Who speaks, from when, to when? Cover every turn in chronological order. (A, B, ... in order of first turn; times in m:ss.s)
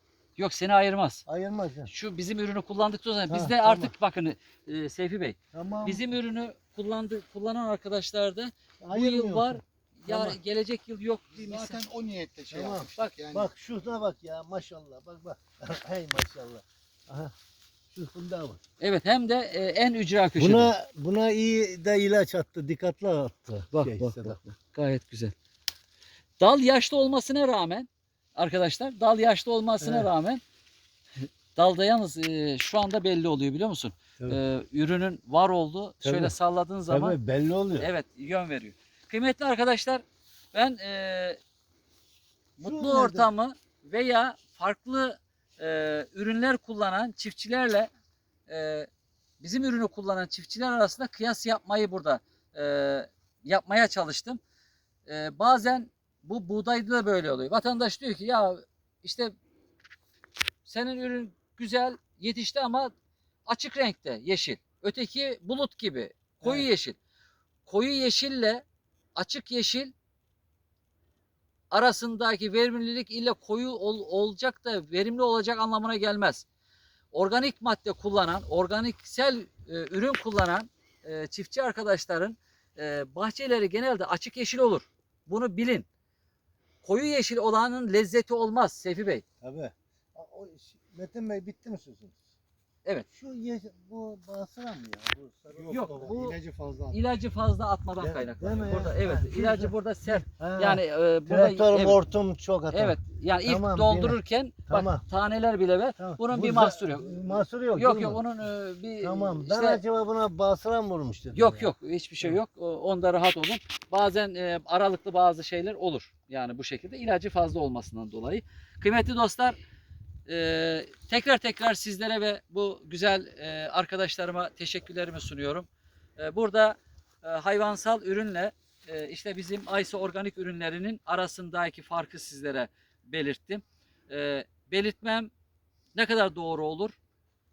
0:00.4-0:01.2 A
0:01.2-0:01.9 B
0:01.9-0:11.8 A
0:03.3-0:03.9 B
0:05.5-0:06.0 B
0:08.8-0:10.4 B
0:11.3-0:13.5 C
0:12.5-0:17.3 B
0:17.9-0:18.6 B
0:18.8-0:20.7 A
0:20.3-0:24.4 B
0:23.7-0:25.3 A
0:26.4-0:30.4 A
0:29.8-0:30.1 B
0:31.5-0:37.2 A
0:36.0-0:36.4 B
0:36.9-0:37.9 B
0:37.8-0:41.4 A
0:42.6-0:43.3 B
0:42.6-0:47.9 A
0:48.5-0:48.9 A
0:49.4-0:54.4 A
0:55.0-0:59.3 A
1:00.6-1:02.9 A
1:03.5-1:07.0 A
1:07.6-1:08.6 A
1:09.1-1:09.9 A
1:11.7-1:16.4 A
1:17.1-1:25.9 A
1:26.8-1:29.2 A
1:29.4-1:32.2 B
1:33.1-1:35.9 B
1:35.6-1:37.0 C
1:35.7-1:36.4 A
1:36.9-1:42.0 A
1:38.0-1:45.0 B
1:42.7-1:49.8 A
1:46.0-1:48.2 B
1:49.0-1:52.4 B
1:51.3-1:59.6 A
2:00.2-2:15.3 A
2:15.9-2:17.0 A